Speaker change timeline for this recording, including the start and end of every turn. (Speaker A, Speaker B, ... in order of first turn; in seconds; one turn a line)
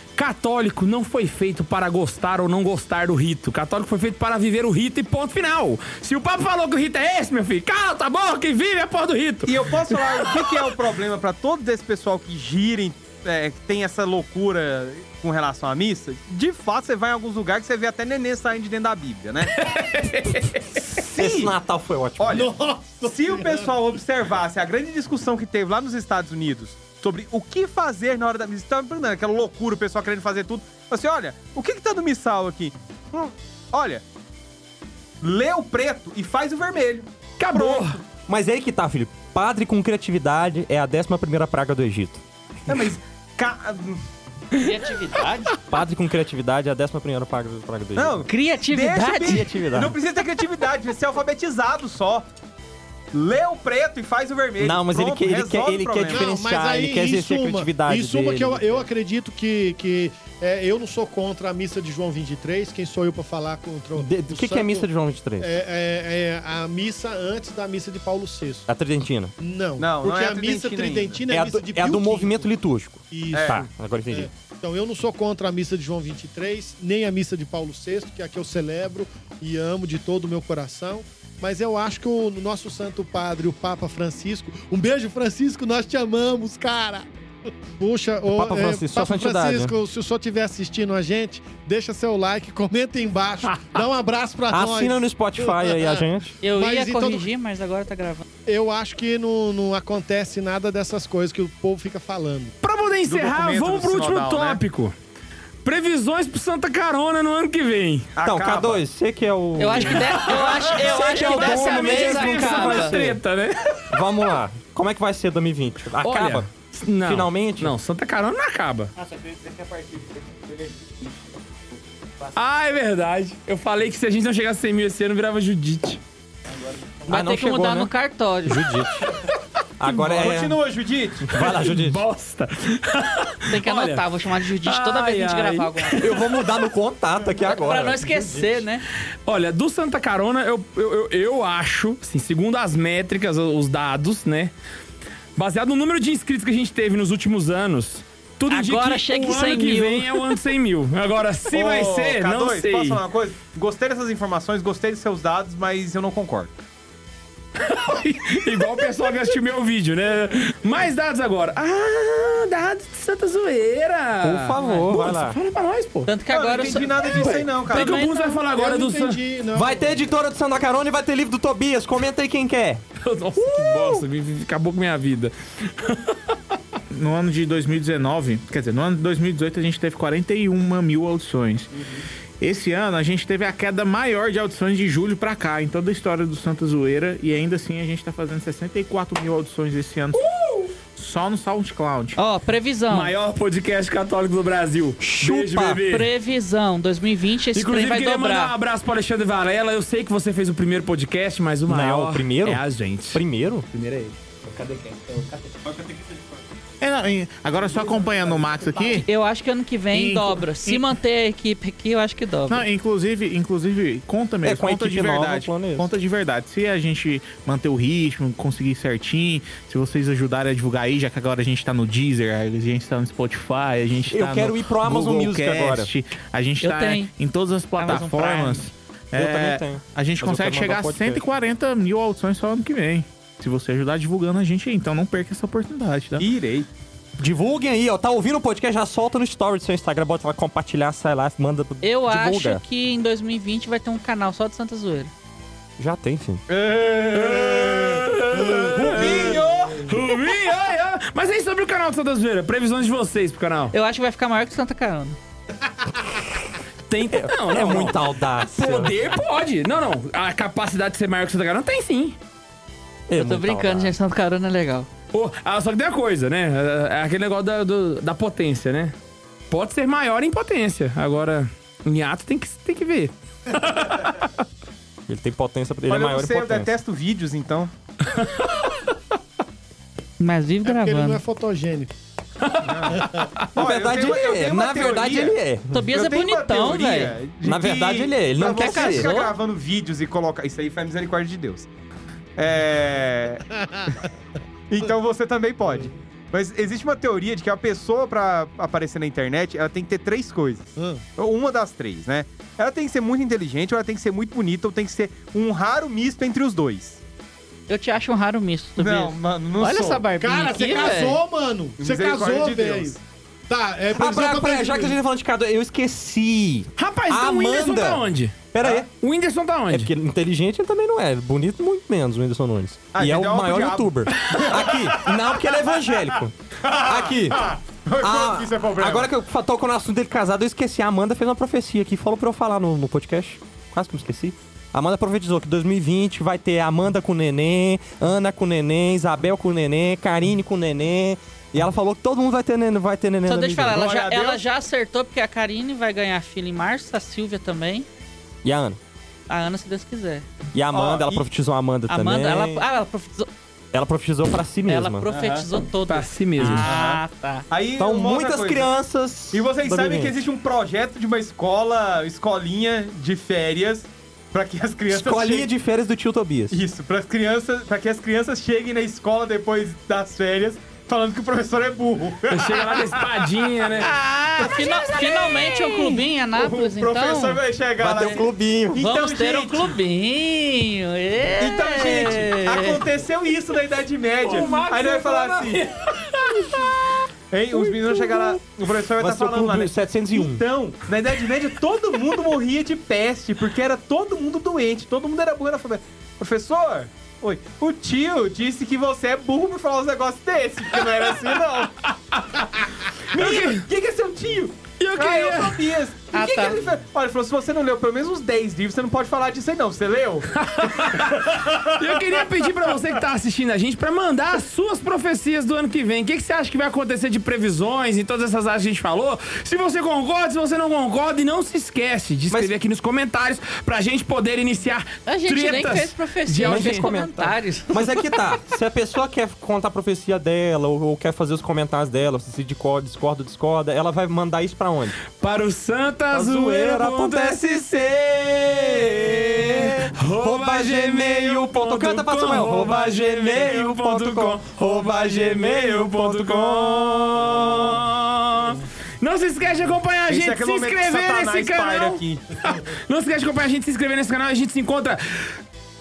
Speaker A: 0.2-10.7
Speaker B: 9.5-19.6
Speaker A: 19.5-20.8
Speaker B: 20.8-21.5
Speaker C: 21.2-22.5
Speaker B: 22.2-22.5
Speaker D: 22.3-23.7
Speaker B: 23.1-34.0
Speaker B: 35.2-38.0
Speaker A: 37.4-38.0
Speaker C: 38.3-42.2
Speaker B: 42.7-44.0
Speaker E: 44.6-45.6
Speaker C: 45.7-48.3
Speaker B: 48.0-52.3
Speaker E: 48.3-49.5
Speaker C: 49.2-50.0
Speaker B: 53.1-56.3
Speaker C: 54.6-58.9
Speaker D: 56.1-64.9
Speaker C: 64.0-65.5
Speaker D: 65.4-68.7
Speaker C: 68.7-69.3
Speaker D: 69.4-72.5
Speaker B: 69.8-71.2
Speaker C: 71.3-74.3
Speaker D: 73.1-73.6
Speaker B: 73.3-73.6
Speaker D: 74.1-87.1
Speaker D: 87.7-97.3
Speaker C: 88.3-89.8
Speaker C: 94.5-96.3
Speaker E: 96.4-98.2
Speaker D: 98.5-102.5
Speaker A: 102.6-104.9
Speaker B: 103.1-104.6
Speaker A: 105.6-108.1
Speaker B: 108.2-108.8
Speaker C: 108.2-113.2
Speaker E: 109.6-113.0
Speaker A: 110.0-114.1
Speaker C: 113.9-116.5
Speaker A: 116.0-119.3
Speaker C: 117.0-117.7
Speaker A: 122.3-126.0
Speaker C: 127.1-127.9
Speaker E: 127.1-128.7
Speaker C: 128.5-129.1
Speaker C: 129.8-130.6
Speaker A: 129.8-130.4
Speaker B: 130.1-131.3
Speaker C: 131.2-132.0
Speaker A: 131.3-136.3
Speaker E: 133.5-136.2
Speaker C: 136.0-138.6
Speaker E: 137.4-138.8
Speaker A: 139.2-144.5
Speaker A: 145.4-153.0
Speaker E: 148.5-150.3
Speaker B: 151.5-156.5
Speaker A: 157.6-166.1
Speaker C: 164.2-165.4
Speaker E: 166.1-168.4
Speaker B: 166.3-168.1
Speaker A: 167.0-169.2
Speaker D: 168.5-170.0
Speaker C: 169.5-172.8
Speaker A: 173.0-176.4
Speaker F: 176.9-181.7
Speaker F: 182.4-190.2
Speaker A: 190.1-190.8
Speaker F: 190.9-192.2
Speaker E: 192.2-193.1
Speaker A: 192.9-196.1
Speaker C: 195.0-195.8
Speaker E: 195.9-198.5
Speaker A: 197.5-206.2
Speaker C: 201.7-203.7
Speaker F: 206.8-209.1
Speaker A: 207.7-209.1
Speaker E: 209.1-212.6
Speaker F: 209.9-210.9
Speaker F: 212.5-236.3
Speaker C: 214.4-215.9
Speaker C: 224.1-225.9
Speaker E: 226.6-227.1
Speaker C: 227.8-231.2
Speaker B: 236.2-236.7
Speaker C: 237.2-242.6
Speaker E: 241.8-245.1
Speaker C: 245.8-246.4
Speaker B: 246.5-250.1
Speaker A: 247.1-253.7
Speaker D: 248.5-248.7
Speaker E: 253.7-255.2
Speaker A: 256.9-262.2
Speaker C: 257.1-259.1
Speaker C: 263.1-263.9
Speaker E: 263.1-264.9
Speaker A: 265.1-268.9
Speaker A: 269.5-274.4
Speaker C: 275.1-276.8
Speaker B: 275.9-277.7
Speaker A: 278.1-278.8
Speaker E: 280.2-281.2
Speaker D: 280.6-281.9
Speaker A: 282.4-283.5
Speaker B: 282.6-283.0
Speaker C: 283.5-285.8
Speaker B: 283.5-291.7
Speaker E: 285.7-287.2
Speaker C: 287.4-289.1
Speaker E: 288.4-289.3
Speaker B: 292.4-293.5
Speaker D: 293.5-293.9
Speaker B: 294.7-307.0
Speaker D: 300.8-301.0
Speaker E: 307.7-311.2
Speaker B: 308.8-310.1
Speaker D: 310.2-313.0
Speaker B: 311.8-313.0
Speaker D: 313.5-315.0
Speaker C: 313.9-318.9
Speaker A: 316.8-319.9
Speaker C: 319.7-327.5
Speaker B: 322.9-325.9
Speaker B: 326.6-329.1
Speaker C: 328.0-343.9
Speaker E: 343.3-347.9
Speaker B: 343.7-344.4
Speaker C: 348.4-348.8
Speaker E: 349.3-350.3
Speaker C: 350.5-352.6
Speaker B: 350.7-351.3
Speaker E: 351.9-353.3
Speaker C: 353.7-355.1
Speaker E: 354.7-357.5
Speaker B: 355.1-355.5
Speaker A: 355.9-356.7
Speaker C: 356.4-356.6
Speaker B: 356.4-358.7
Speaker C: 357.8-360.2
Speaker B: 359.3-365.5
Speaker C: 364.9-366.6
Speaker B: 366.5-373.2
Speaker A: 372.3-375.8
Speaker E: 373.8-378.2
Speaker B: 374.4-375.0
Speaker B: 375.6-379.8
Speaker C: 377.8-378.8
Speaker E: 378.8-382.8
Speaker B: 381.4-385.6
Speaker A: 384.2-387.0
Speaker C: 386.4-386.7
Speaker B: 387.3-401.8
Speaker C: 387.5-388.4
Speaker C: 389.0-390.4
Speaker A: 400.7-403.7
Speaker B: 403.1-412.2
Speaker A: 404.8-405.8
Speaker E: 406.1-406.6
Speaker A: 410.4-426.9
Speaker E: 425.1-428.4
Speaker C: 426.4-435.0
Speaker A: 435.2-455.4
Speaker C: 436.1-437.7
Speaker C: 438.4-447.5
Speaker B: 450.1-452.3